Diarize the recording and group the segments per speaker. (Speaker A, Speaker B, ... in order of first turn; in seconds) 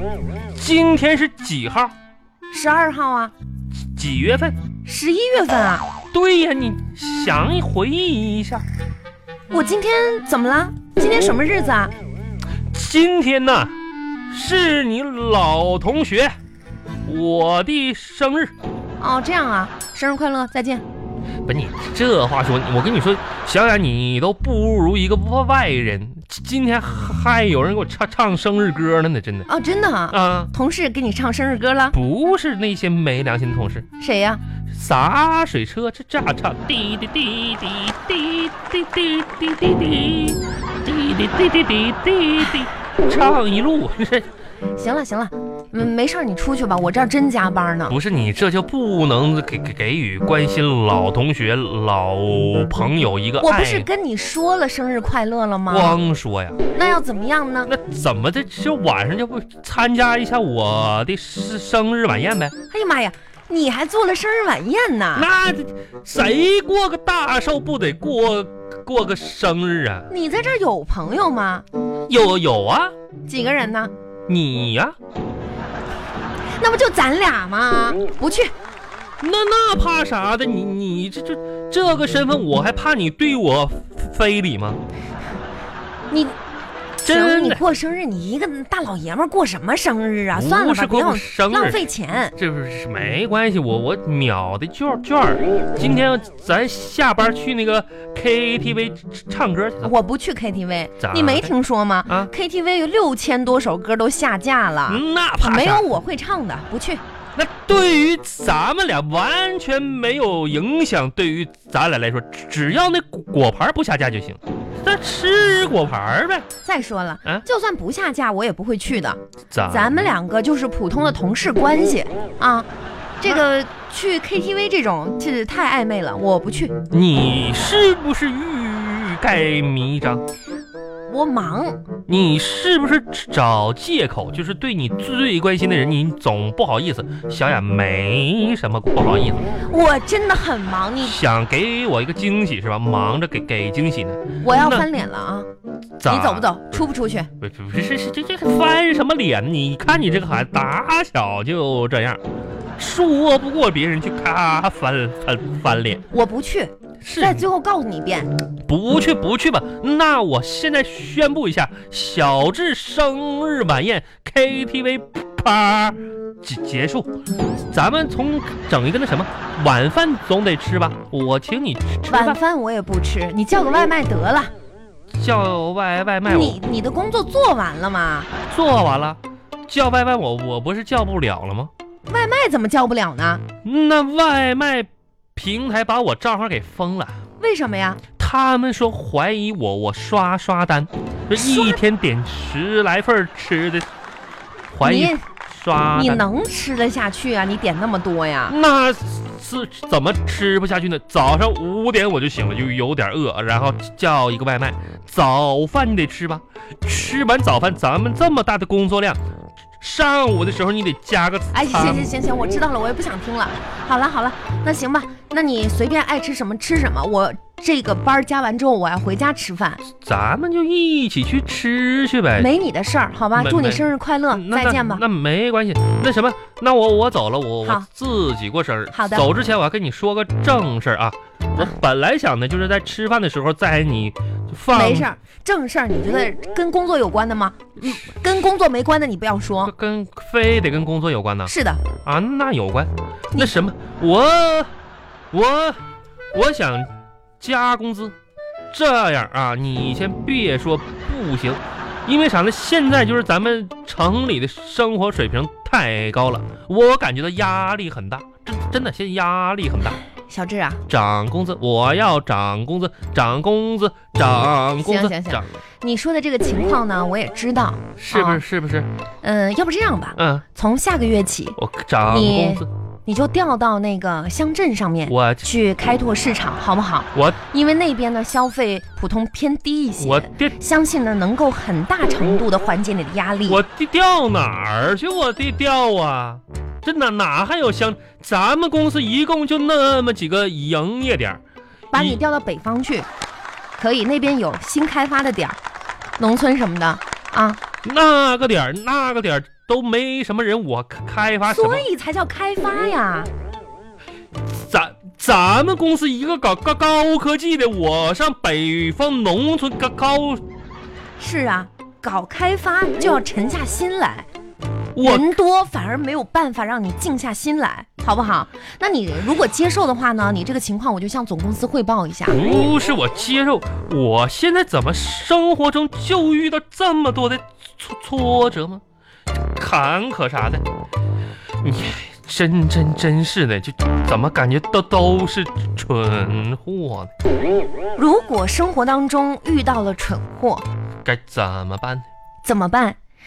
Speaker A: 0.5-1.9, 3.9-4.6, 6.1-8.6, 12.7-13.7, 14.3-16.4, 17.1-18.5, 21.5-29.5, 30.1-30.5, 31.9-33.9, 34.7-44.3, 47.9-53.9, 55.7-56.6, 57.6-62.5, 65.1-70.1, 72.1-72.9, 74.3-75.0, 79.2-84.8, 87.0-87.6, 90.3-91.8, 92.4-99.9, 101.0-101.5, 102.1-102.3, 104.9-105.8, 107.3-116.5, 119.5-120.0, 126.9-130.2, 132.1-139.5, 141.0-144.9, 146.0-146.8, 147.4-152.2, 152.8-156.0, 157.0-157.5, 158.7-167.1, 167.7-172.4, 175.1-176.6, 178.5-181.7, 183.6-187.2, 188.2-193.9, 194.7-196.2, 198.5-209.2, 209.8-212.1, 219.9-222.5, 223.3-235.1, 239.6-241.5, 242.0-244.7, 245.3-245.8, 246.3-248.1, 248.7-260.0, 260.9-265.5, 268.0-268.9, 270.2-270.4, 271.6-272.7, 275.1-275.5, 280.0-280.5, 283.5-291.4, 291.9-292.2, 297.8-301.9, 304.5-310.4, 314.9-315.3, 322.3-328.8, 329.4-330.6, 331.6-337.1, 341.0-342.1
Speaker B: 2.5-3.3, 4.8-5.8, 9.5-11.9, 19.0-20.8, 29.5-31.9, 34.0-34.4, 44.8-48.0, 53.4-56.0, 56.7-57.7, 62.7-65.3, 70.1-71.6, 73.3-73.9, 76.6-78.5, 86.1-86.3, 87.0-92.3, 99.8-107.0, 116.6-122.7, 123.2-126.7, 131.1-131.8, 139.6-141.2, 144.4-145.5, 146.0-147.3, 156.1-158.3, 172.1-174.5, 176.2-178.3, 182.1-183.4, 187.4-188.0, 191.3-191.8, 194.8-195.2, 195.9-198.6, 211.5-219.8, 222.4-225.0, 228.9-229.3, 234.7-239.7, 241.4-241.8, 260.0-260.8, 264.8-268.4, 269.2-283.6, 291.9-293.1, 293.8-295.6, 296.2-297.6, 301.4-303.3, 311.2-314.3, 315.0-322.6, 337.9-340.6, 342.4-343.0